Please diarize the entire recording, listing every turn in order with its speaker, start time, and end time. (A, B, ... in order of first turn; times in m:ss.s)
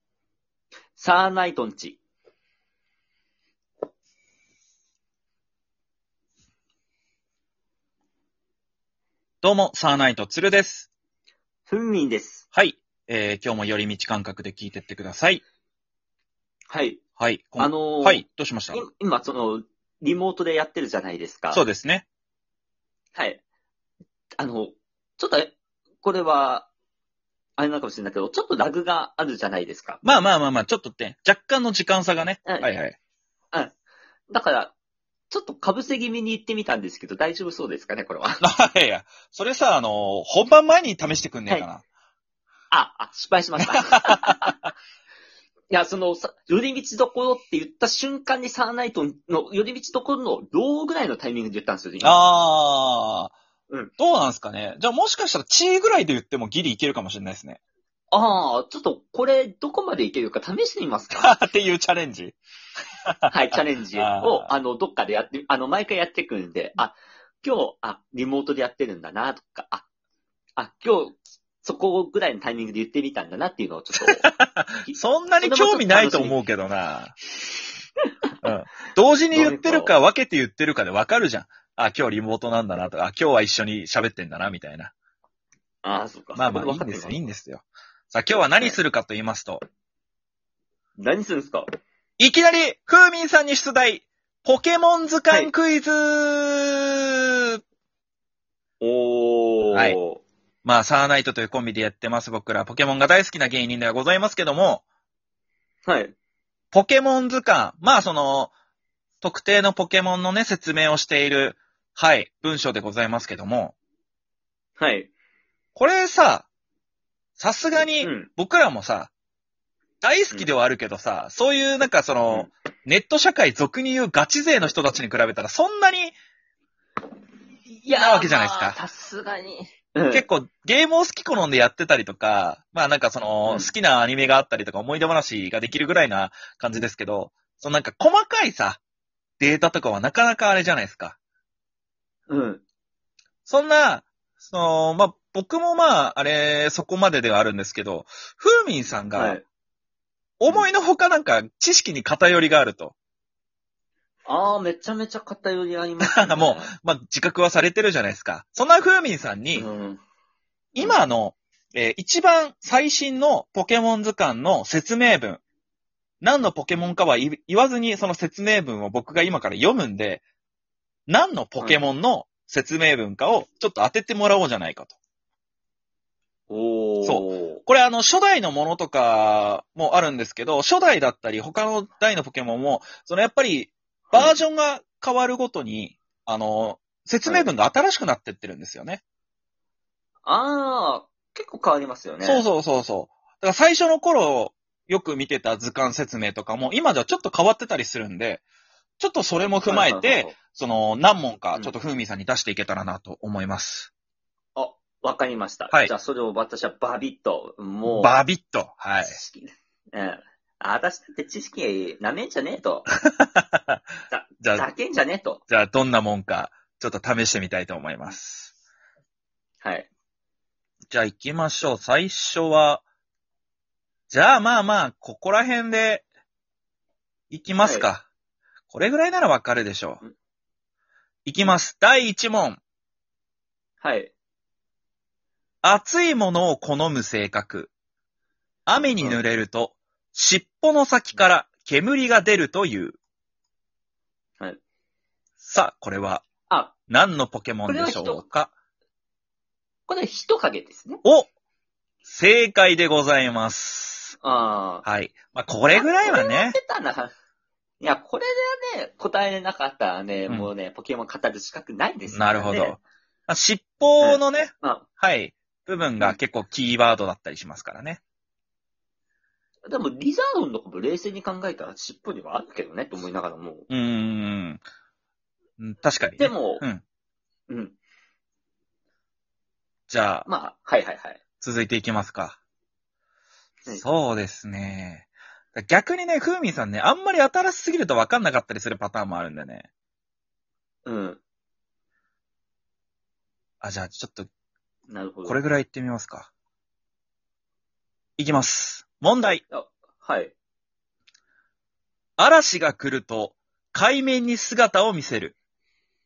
0:01.0-0:02.0 A
0:09.4-0:10.9 B
0:11.7-0:12.4 A
0:12.5-0:15.4 B
0:16.7-0:17.0 A
0:17.2-0:18.8 B
0:17.6-0:21.6 A
0:21.5-0:22.0 B
0:23.1-0:23.4 A
0:24.4-0:26.7 A
0:27.6-0:30.0 A
0:30.0-0:33.0 B
0:32.4-0:32.7 A
0:34.3-0:34.7 A
0:35.3-0:38.4 A
0:38.4-0:41.8 B
0:42.7-0:44.5 A
0:43.6-0:44.7 B
0:45.7-0:52.2 A
0:52.0-0:53.3 B
0:54.0-0:57.6 B
0:58.1-1:01.4 A
1:01.2-1:02.4 B
1:03.0-1:03.3 B
1:03.3-1:09.8 A
1:04.0-1:04.5 B
1:10.6-1:14.3 A
1:14.2-1:17.1 B
1:14.8-1:16.4 A
1:18.4-1:24.9 B
1:19.3-1:19.9 A
1:25.8-1:27.2 A
1:26.3-1:29.6 B
1:28.5-1:28.8 A
1:31.0-1:31.7 A
1:32.2-1:37.6 B
1:38.8-1:40.2 A
1:39.7-1:40.0 B
1:40.6-1:44.8 B
1:45.8-1:46.1 A
1:46.7-1:48.5 B
1:49.2-1:53.8 B
1:54.8-1:55.1 A
1:55.8-1:56.5 B
1:57.4-1:59.1 B
1:58.0-1:58.3 A
2:00.0-2:06.1 B
2:07.8-2:10.2 A
2:07.9-2:08.8 B
2:10.1-2:18.8 B
2:19.4-2:21.2 B
2:22.3-2:22.6 A
2:23.4-2:29.4 B
2:29.1-2:29.4 A
2:30.4-2:32.9 B
2:34.2-2:36.7 A
2:36.0-2:39.7 B
2:39.6-2:40.0 A
2:40.7-2:45.4 B
2:40.8-2:41.0 A
2:46.2-2:50.2 B
2:51.1-2:54.9 B
2:56.5-2:57.6 A
2:57.0-3:09.0 B
3:04.1-3:04.4 A
3:10.2-3:12.4 A
3:12.2-3:18.4 B
3:19.0-3:23.9 B
3:19.6-3:20.4 A
3:24.6-3:28.1 A
3:27.9-3:29.2 B
3:29.0-3:32.8 A
3:33.1-3:33.8 B
3:34.1-3:35.4 A
3:34.4-3:34.7 B
3:35.5-3:38.5 B
3:39.6-3:39.9 A
3:40.9-3:42.8 B
3:44.1-3:46.0 B
3:47.3-3:48.0 B
3:47.6-3:47.9 A
3:48.7-3:50.0 B
3:51.2-3:52.6 B
3:53.8-3:54.1 A
3:55.6-3:57.7 B
3:58.7-4:03.0 B
4:05.4-4:06.2 B
4:06.5-4:06.8 A
4:06.9-4:08.5 B
4:07.7-4:08.2 A
4:09.9-4:11.0 A
4:11.0-4:11.3 B
4:12.0-4:14.1 B
4:14.2-4:14.8 A
4:14.8-4:16.6 B
4:15.7-4:17.1 A
4:17.8-4:22.8 A
4:22.1-4:28.0 B
4:24.0-4:24.8 A
4:29.7-4:33.7 A
4:33.7-4:34.6 B
4:35.6-4:36.8 B
4:36.2-4:36.6 A
4:37.5-4:37.8 A
4:39.9-4:40.3 B
4:40.2-4:41.2 A
4:41.4-4:42.4 B
4:43.7-4:49.7 B
4:50.8-4:51.2 A
4:53.6-4:54.3 B
4:54.9-4:55.4 A
4:55.2-4:56.3 B
4:58.2-4:59.4 B
4:59.5-5:00.3 A
5:02.2-5:05.4 B